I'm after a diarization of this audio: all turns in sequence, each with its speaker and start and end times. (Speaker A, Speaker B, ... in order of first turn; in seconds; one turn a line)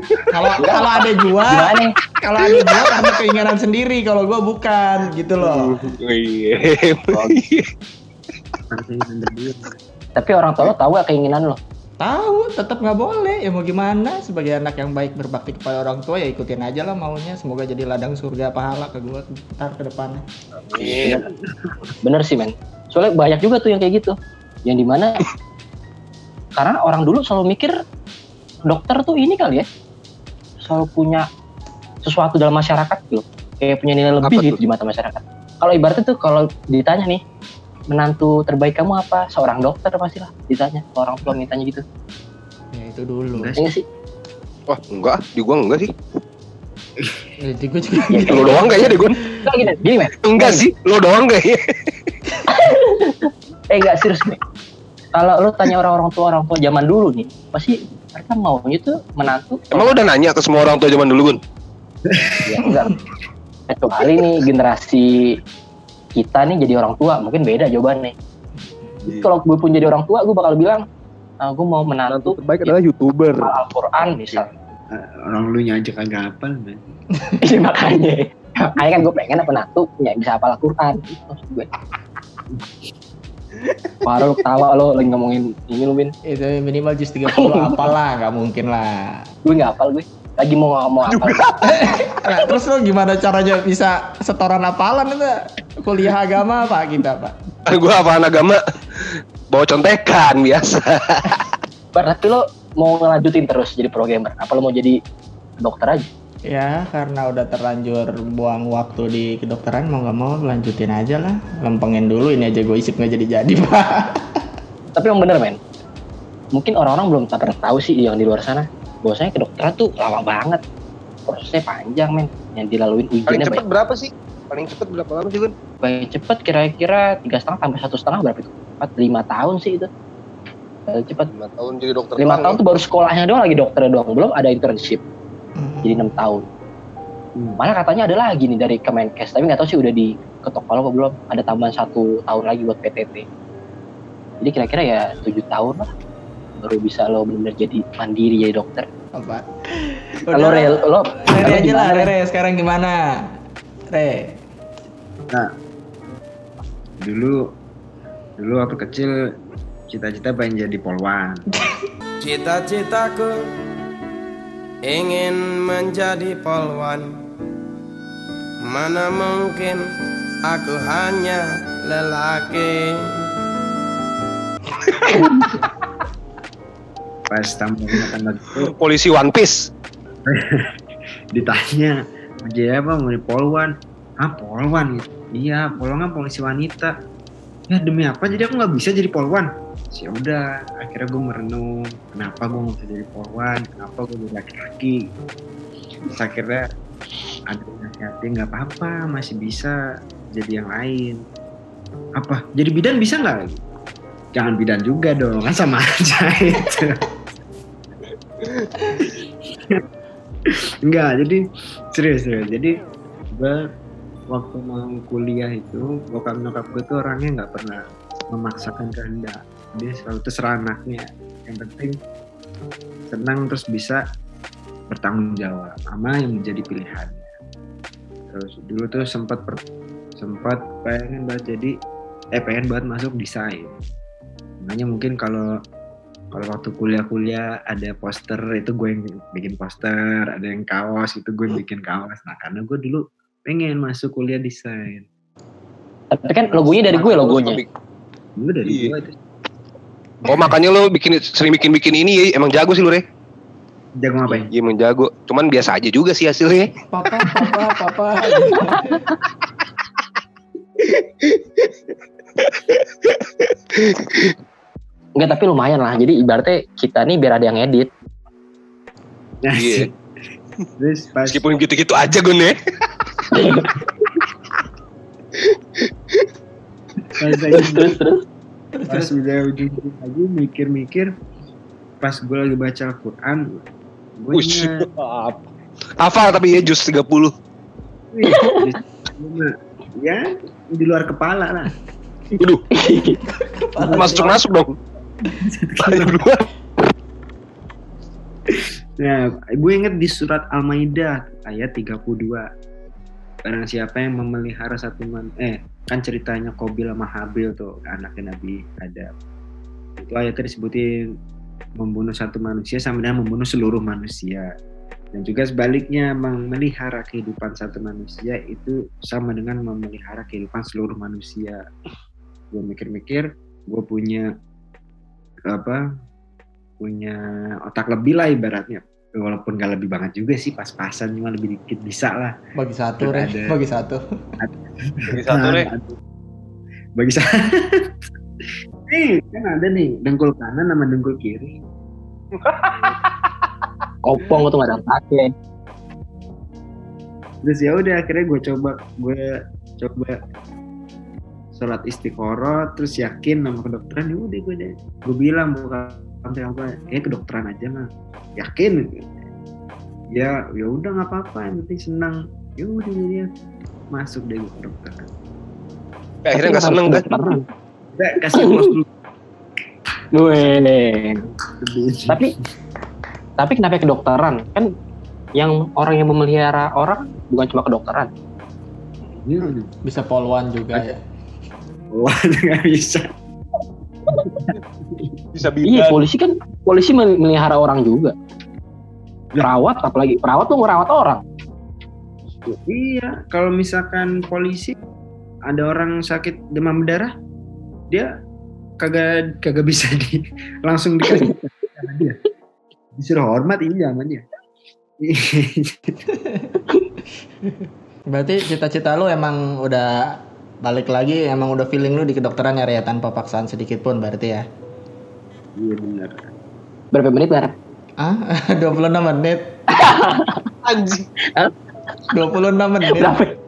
Speaker A: 0.3-5.8
Speaker B: 0.6-0.9
Speaker B: 1.5-1.9
Speaker C: 5.4-7.7
Speaker B: 7.1-7.4
Speaker D: 8.7-9.8
Speaker B: 10.2-11.6
Speaker A: 12.0-20.2
Speaker C: 20.7-21.2
Speaker B: 20.8-21.3
Speaker B: 22.0-25.2
Speaker B: 26.6-27.8
Speaker B: 28.6-29.7
Speaker B: 30.6-31.3
Speaker B: 32.0-37.2
Speaker C: 34.2-34.6
Speaker B: 37.9-41.8
Speaker A: 42.7-43.5
Speaker D: 43.3-43.7
Speaker B: 43.6-43.8
Speaker C: 44.7-45.9
Speaker A: 47.4-49.6
Speaker B: 48.1-50.7
Speaker C: 48.3-49.2
Speaker C: 50.2-51.9
Speaker B: 52.5-54.4
Speaker B: 55.1-60.0
Speaker C: 59.7-61.4
Speaker D: 62.1-62.6
Speaker B: 62.4-63.0
Speaker A: 62.6-63.0
Speaker B: 63.7-65.4
Speaker B: 66.2-68.1
Speaker B: 69.0-70.8
Speaker B: 71.4-72.7
Speaker C: 72.1-73.5
Speaker B: 73.4-74.5
Speaker D: 74.9-76.9
Speaker B: 77.4-81.7
Speaker B: 84.0-86.1
Speaker A: 86.2-89.2
Speaker B: 87.3-87.9
Speaker B: 89.4-91.5
Speaker C: 91.1-91.7
Speaker A: 91.6-97.3
Speaker C: 97.7-101.5
Speaker B: 101.9-105.0
Speaker B: 105.6-106.1
Speaker A: 106.5-114.4
Speaker B: 114.9-115.6
Speaker B: 116.5-120.6
Speaker B: 121.2-123.6
Speaker C: 123.3-125.5
Speaker B: 125.8-129.9
Speaker B: 130.9-131.3
Speaker C: 131.3-132.6
Speaker B: 132.2-135.0
Speaker A: 135.6-136.2
Speaker B: 135.8-136.4
Speaker B: 137.6-143.2
Speaker B: 144.4-145.9
Speaker B: 146.6-148.9
Speaker A: 149.1-153.0
Speaker B: 150.3-152.1
Speaker A: 153.9-154.3
Speaker D: 157.0-157.5
Speaker D: 158.4-159.2
Speaker D: 159.9-161.4
Speaker E: 162.2-163.3
Speaker E: 164.8-167.1
Speaker E: 168.7-169.8
Speaker E: 170.4-173.1
Speaker D: 177.3-178.7
Speaker C: 178.6-179.7
Speaker D: 180.2-180.7
Speaker D: 181.3-186.9
Speaker D: 187.7-195.1
Speaker D: 196.1-196.7
Speaker D: 197.5-199.8
Speaker D: 200.3-201.2
Speaker D: 202.2-203.6
Speaker D: 204.3-207.1
Speaker D: 209.0-209.8
Speaker D: 210.5-212.8
Speaker D: 213.3-213.7
Speaker D: 214.3-222.0
Speaker D: 223.1-224.0
Speaker D: 224.9-227.3
Speaker D: 228.3-229.6
Speaker D: 230.2-231.8
Speaker D: 232.3-233.8
Speaker D: 234.6-235.6
Speaker D: 236.3-245.1
Speaker B: 246.1-247.6
Speaker C: 246.9-247.7
Speaker D: 248.4-249.2
Speaker C: 248.7-248.9
Speaker C: 250.2-253.0
Speaker D: 254.0-254.5
Speaker C: 254.5-256.7
Speaker A: 256.9-259.0
Speaker B: 258.5-258.8
Speaker C: 262.4-264.3
Speaker B: 265.2-267.9
Speaker D: 269.4-269.9
Speaker C: 269.5-269.9
Speaker D: 270.8-271.4
Speaker C: 271.2-272.6
Speaker B: 273.3-273.8
Speaker D: 277.1-278.0
Speaker B: 277.5-278.2
Speaker A: 278.8-279.1
Speaker D: 278.9-281.1
Speaker D: 282.0-283.6
Speaker D: 284.2-284.8
Speaker C: 284.3-285.4
Speaker C: 286.0-287.3
Speaker D: 288.1-291.7
Speaker B: 288.2-288.6
Speaker C: 292.4-292.6
Speaker B: 292.7-293.2
Speaker A: 293.4-294.4
Speaker C: 293.9-294.7
Speaker D: 295.3-296.2
Speaker C: 295.8-296.4
Speaker D: 298.5-302.5
Speaker D: 303.4-309.1
Speaker D: 310.0-311.1
Speaker D: 311.8-314.5
Speaker D: 315.1-321.6
Speaker D: 322.5-324.3
Speaker D: 325.5-325.8
Speaker D: 326.8-332.3
Speaker A: 332.6-334.0
Speaker D: 333.0-333.6
Speaker D: 334.4-336.0
Speaker C: 335.1-335.7
Speaker D: 337.0-337.9
Speaker D: 338.9-341.6
Speaker C: 342.4-343.0
Speaker B: 344.0-345.3
Speaker D: 347.4-349.2
Speaker D: 349.8-350.2
Speaker D: 351.5-358.9
Speaker D: 360.1-363.3
Speaker D: 363.9-365.1
Speaker C: 366.2-367.4
Speaker B: 366.3-367.4
Speaker D: 367.9-368.8
Speaker B: 368.3-368.7
Speaker B: 370.1-371.2
Speaker D: 371.6-372.2
Speaker B: 373.4-374.7
Speaker B: 375.4-378.1
Speaker D: 379.1-379.7
Speaker A: 379.8-381.0
Speaker D: 381.9-383.1
Speaker D: 384.1-385.1
Speaker C: 385.3-386.0
Speaker B: 385.6-388.1
Speaker B: 389.4-391.2
Speaker D: 392.4-394.8
Speaker D: 395.5-397.1
Speaker D: 398.8-402.2
Speaker D: 402.9-404.2
Speaker D: 405.0-406.0
Speaker A: 406.1-406.6
Speaker A: 407.4-409.9
Speaker A: 410.6-414.4
Speaker D: 415.6-416.2
Speaker B: 416.9-417.5
Speaker A: 418.0-419.5
Speaker B: 419.7-420.5
Speaker C: 420.6-421.1
Speaker B: 421.2-421.5
Speaker A: 422.1-423.2
Speaker B: 422.9-423.3